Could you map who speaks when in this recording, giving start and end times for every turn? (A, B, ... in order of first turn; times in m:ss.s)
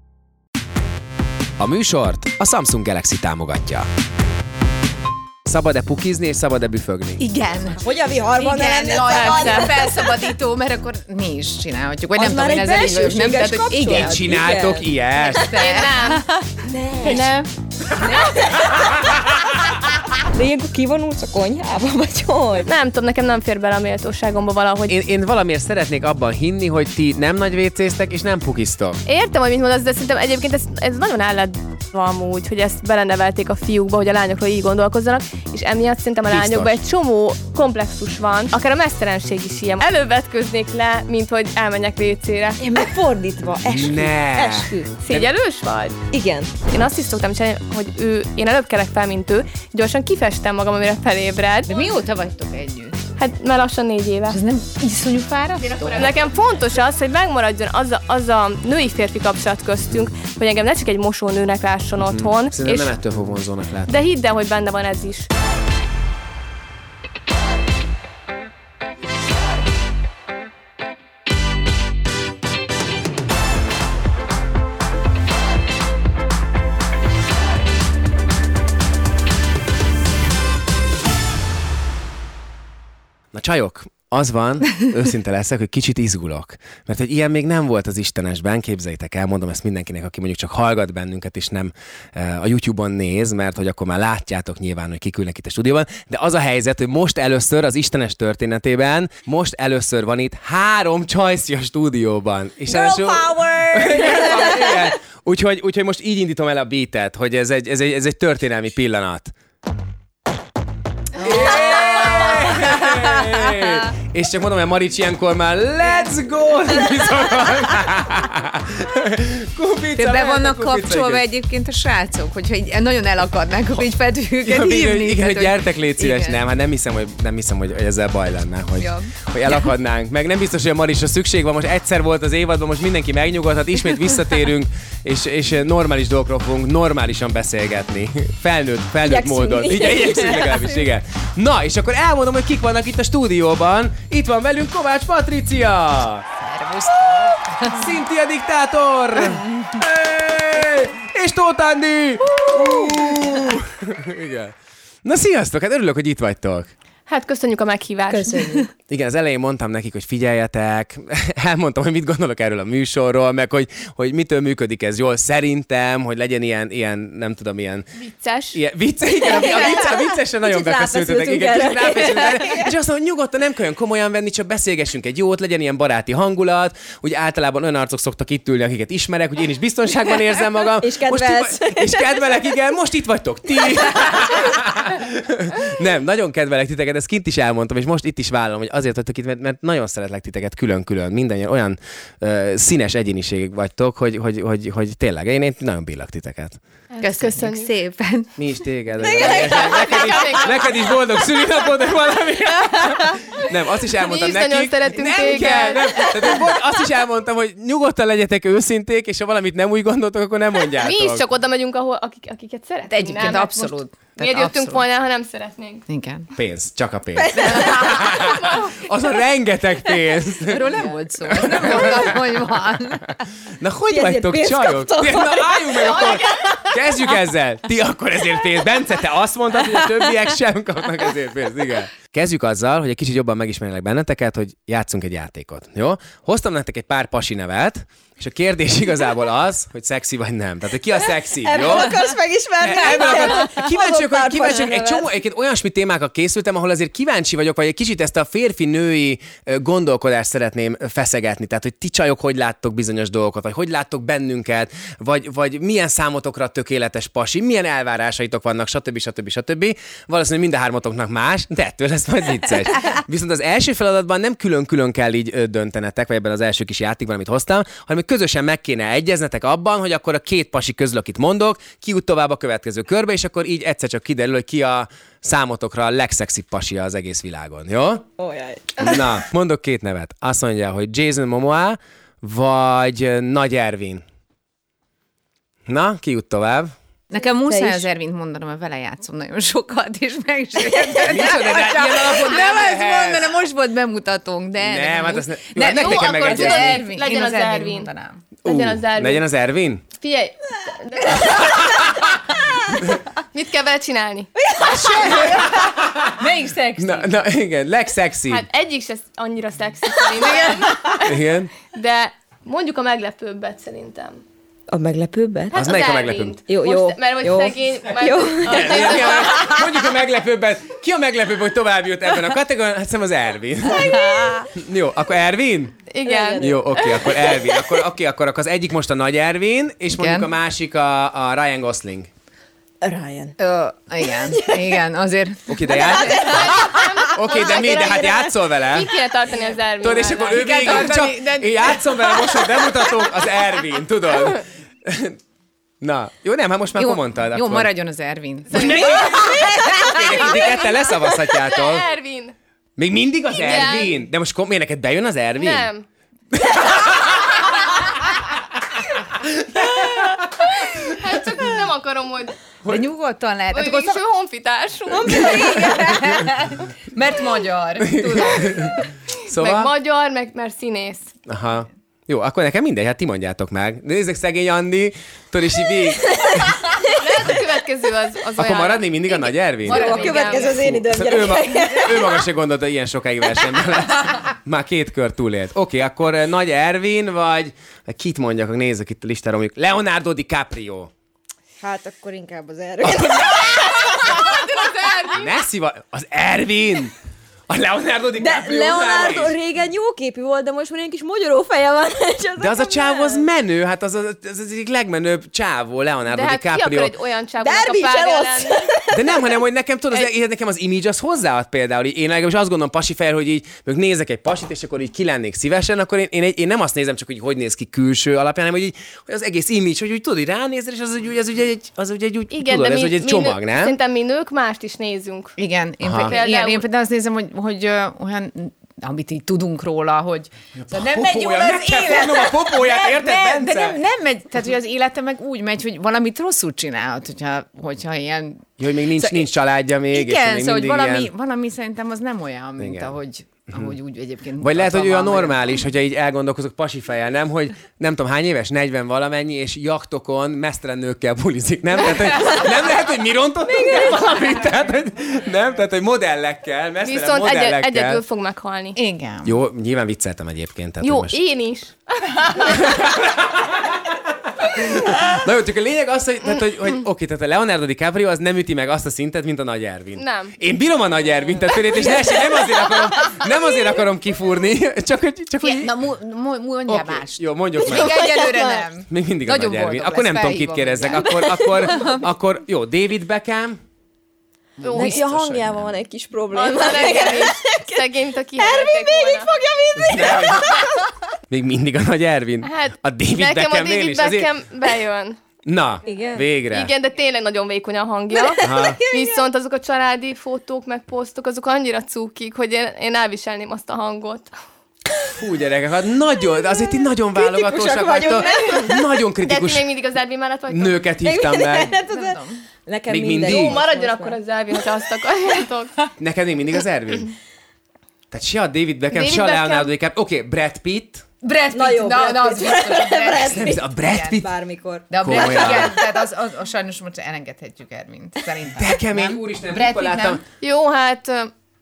0:01.6-0:03.9 A
0:05.4-0:07.2 A
0:07.2-0:14.4 B
0:07.8-0:10.2 C
0:09.1-0:09.7 D
0:12.2-0:15.3 C
0:13.9-0:15.5 A
0:15.1-0:16.3 B
0:15.6-0:16.3 D
0:16.6-0:17.3 C
0:17.0-0:17.5 B
0:18.0-0:19.1 C
0:20.2-0:22.7 C
0:22.6-0:24.9 D
0:24.9-0:29.0 A
0:29.0-0:42.6 D
0:36.3-0:36.8 A
0:42.6-0:44.9 C
0:43.7-0:45.3 A
0:45.0-0:46.0 D
0:46.1-0:46.6 C
0:46.7-0:51.7 D
0:51.7-0:53.1 B
0:53.2-0:54.4 D
0:54.3-0:56.1 B
0:55.8-1:02.9 D
1:02.0-1:03.9 A
1:03.9-1:05.3 D
1:23.3-1:49.3 A
1:42.7-1:45.0 C
1:51.2-2:01.2 A
1:51.3-1:53.6 B
2:00.0-2:06.4 B
2:04.4-2:26.2 A
2:08.8-2:09.6 B
2:19.0-2:20.9 C
2:26.4-2:27.8 B
2:27.6-2:36.7 A
2:32.5-2:33.5 C
2:37.1-2:38.4 D
2:38.1-2:38.7 C
2:38.9-2:47.9 A
2:48.0-2:48.6 D
2:48.5-3:16.6 A
2:49.2-2:52.7 C
2:49.4-2:49.6 D
3:00.8-3:02.6 C
3:16.9-3:17.7 D
3:17.0-3:18.4 B
3:18.4-3:31.2 A
3:19.0-3:21.7 C
3:19.1-3:20.9 D
3:24.0-3:26.0 D
3:26.2-3:26.5 C
3:30.8-3:35.8 D
3:32.9-3:34.8 B
3:35.9-3:36.3 B
3:36.3-3:42.2 A
3:37.2-3:38.2 C
3:37.9-3:38.9 D
3:40.4-3:43.2 B
3:43.6-4:02.0 A
3:43.9-3:46.2 C
3:45.8-3:46.3 D
4:01.4-4:05.1 C
4:02.6-4:38.1 A
4:38.2-4:39.1 C
4:38.8-4:44.0 A
4:45.7-4:46.7 A
4:47.1-4:58.2 B
4:47.5-4:47.9 C
4:50.7-4:51.3 C
4:51.0-4:53.3 A
4:54.6-4:56.8 A
4:55.7-4:57.9 D
4:58.4-4:59.8 A
4:58.4-4:59.2 D
5:00.0-5:01.6 D
5:01.0-5:01.8 C
5:01.5-5:02.1 A
5:03.3-5:04.3 D
5:04.3-5:05.7 C
5:04.6-5:06.1 A
5:05.1-5:05.5 B
5:06.1-5:07.1 B
5:06.8-5:08.4 A
5:08.3-5:14.2 D
5:11.0-5:11.5 A
5:14.7-5:15.7 C
5:15.5-5:19.6 D
5:15.5-5:16.4 A
5:16.5-5:19.6 C
5:18.4-5:25.8 A
5:23.7-5:24.5 C
5:25.9-5:27.0 D
5:26.0-5:27.8 C
5:26.4-5:32.1 A
5:30.0-5:30.3 B
5:32.8-5:33.4 C
5:33.4-5:36.2 B
5:34.1-5:34.8 C
5:35.5-5:38.9 A
5:35.6-5:36.8 C
5:36.2-5:41.2 D
5:37.6-5:38.3 C
5:39.8-5:45.2 A
5:40.0-5:42.6 B
5:45.8-5:47.7 A
5:46.8-5:49.0 B
5:48.5-5:51.8 A
5:48.5-5:52.3 D
5:52.8-5:55.7 A
5:53.3-5:53.9 D
5:55.4-5:55.8 D
5:56.3-5:57.6 A
5:59.2-6:00.2 A
6:00.4-6:02.4 D
6:02.7-6:04.0 B
6:03.5-6:05.6 D
6:04.9-6:06.3 C
6:05.7-6:08.8 B
6:08.0-6:09.7 A
6:09.3-6:11.1 D
6:11.3-6:16.8 A
6:16.1-6:16.5 C
6:16.9-6:20.6 D
6:18.4-6:30.9 A
6:19.6-6:22.2 C
6:31.6-6:34.6 C
6:32.8-6:34.1 A
6:33.9-6:35.2 D
6:35.1-6:36.9 A
6:37.5-6:39.3 A
6:38.2-6:43.3 C
6:42.4-6:46.9 A
6:46.1-6:48.7 D
6:47.4-6:49.4 C
6:48.9-7:03.8 A
7:02.3-7:05.4 D
7:05.4-7:19.3 B
7:05.8-7:06.1 A
7:06.0-7:06.6 D
7:10.6-7:13.8 A
7:18.6-7:21.1 A
7:19.9-7:25.6 B
7:22.6-7:22.9 A
7:24.4-7:38.0 A
7:36.8-7:38.8 D
7:38.8-7:39.3 B
7:39.2-7:41.2 A
7:40.8-7:42.6 D
7:42.4-7:43.5 A
7:44.4-7:55.7 A
7:50.0-7:50.4 D
7:51.8-7:52.7 C
7:55.4-8:02.0 B
7:56.7-7:58.2 A
7:57.6-7:58.7 C
7:58.9-8:03.6 A
8:00.9-8:02.0 C
8:04.6-8:05.7 A
8:04.6-8:05.0 D
8:04.7-8:07.8 C
8:06.3-8:09.3 D
8:08.4-8:11.1 C
8:09.8-8:10.5 A
8:11.3-8:14.3 A
8:12.4-8:15.2 D
8:15.4-8:16.7 A
8:15.8-8:16.2 C
8:16.5-8:24.3 D
8:18.1-8:19.2 C
8:18.4-8:18.8 A
8:25.1-8:29.7 A
8:26.3-8:29.0 C
8:28.2-8:30.8 D
8:30.5-8:31.7 A
8:31.0-8:34.2 C
8:31.7-8:32.4 B
8:32.9-8:33.6 A
8:33.2-8:35.8 D
8:36.0-8:37.1 A
8:38.1-8:41.0 A
8:38.9-8:39.7 D
8:41.2-8:44.2 B
8:41.5-8:45.9 C
8:43.4-8:44.3 A
8:44.9-8:50.2 B
8:45.0-8:45.8 A
8:48.6-8:50.2 A
8:50.4-8:51.3 D